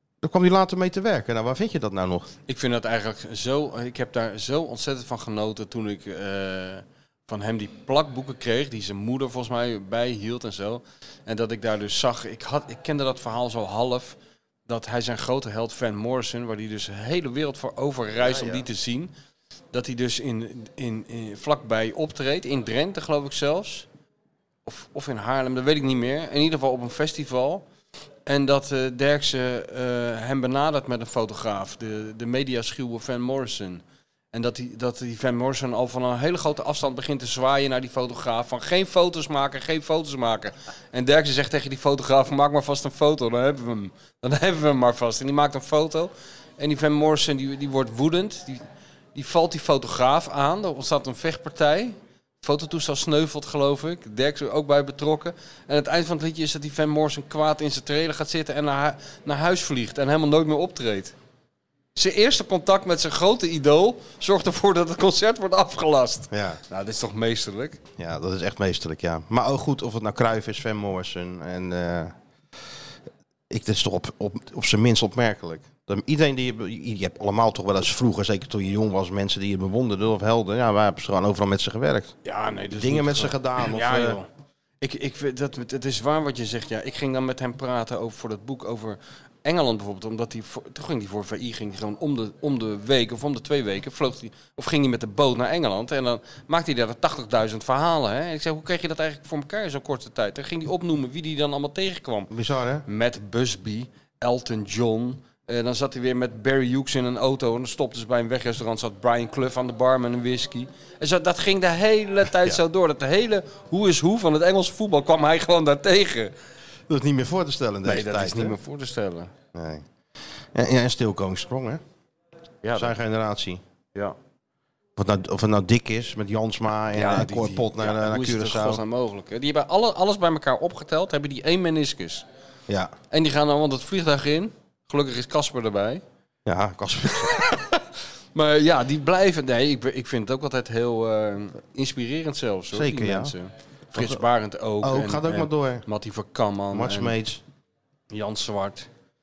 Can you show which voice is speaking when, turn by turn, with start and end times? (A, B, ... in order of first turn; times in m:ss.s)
0:00.2-0:02.3 A
0:02.5-0:14.2 B
0:14.7-0:19.1 B
0:18.2-0:18.6 A
0:19.7-0:23.8 B
0:24.6-0:27.6 B
0:28.2-0:48.6 B
0:49.1-1:01.1 B
1:02.0-1:07.8 B
1:06.3-1:06.6 A
1:08.0-1:12.1 A
1:13.5-1:22.1 A
1:22.2-1:24.3 B
1:22.7-1:24.2 A
1:24.8-1:42.3 B
1:42.3-1:42.8 A
1:42.9-1:56.3 B
1:56.9-1:58.6 A
1:57.8-1:59.3 B
1:59.5-1:59.8 A
2:00.5-2:01.8 A
2:02.6-2:03.0 B
2:02.7-2:03.6 A
2:05.0-2:08.8 A
2:06.9-2:12.2 B
2:12.7-2:12.9 A
2:13.1-2:16.0 B
2:16.4-2:17.4 A
2:18.3-2:27.2 B
2:22.7-2:23.3 A
2:23.9-2:24.2 A
2:24.8-2:25.8 A
2:26.7-2:27.4 A
2:28.1-2:28.9 B